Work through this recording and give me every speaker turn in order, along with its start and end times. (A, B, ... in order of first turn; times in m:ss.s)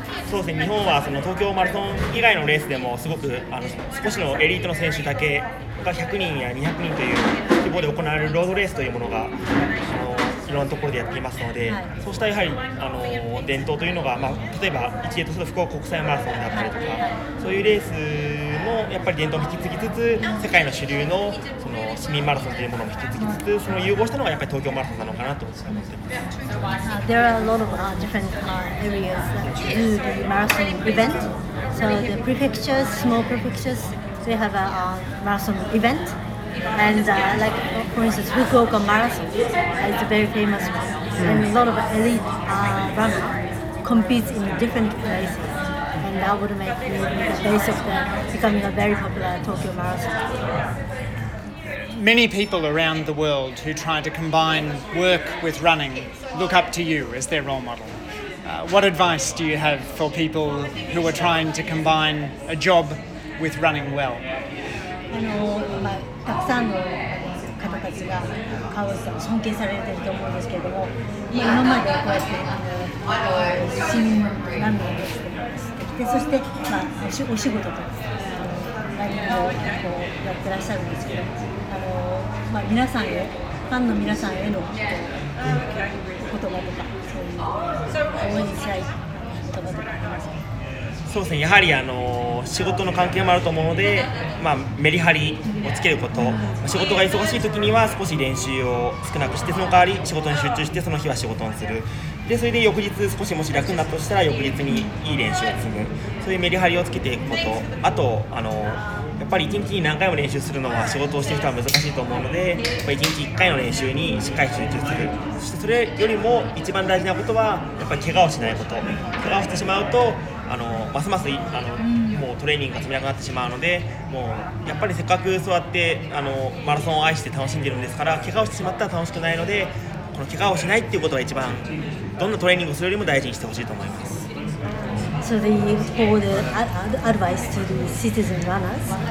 0:00.2-0:26.1 A
0:11.6-0:11.9 B
0:16.7-0:17.1 B
0:26.8-0:36.2 B
0:36.7-0:50.3 B
0:51.9-1:04.2 C
1:05.1-1:25.1 B
1:26.3-1:30.4 B
1:31.1-2:14.3 A
2:01.8-2:02.2 B
2:15.2-2:19.0 B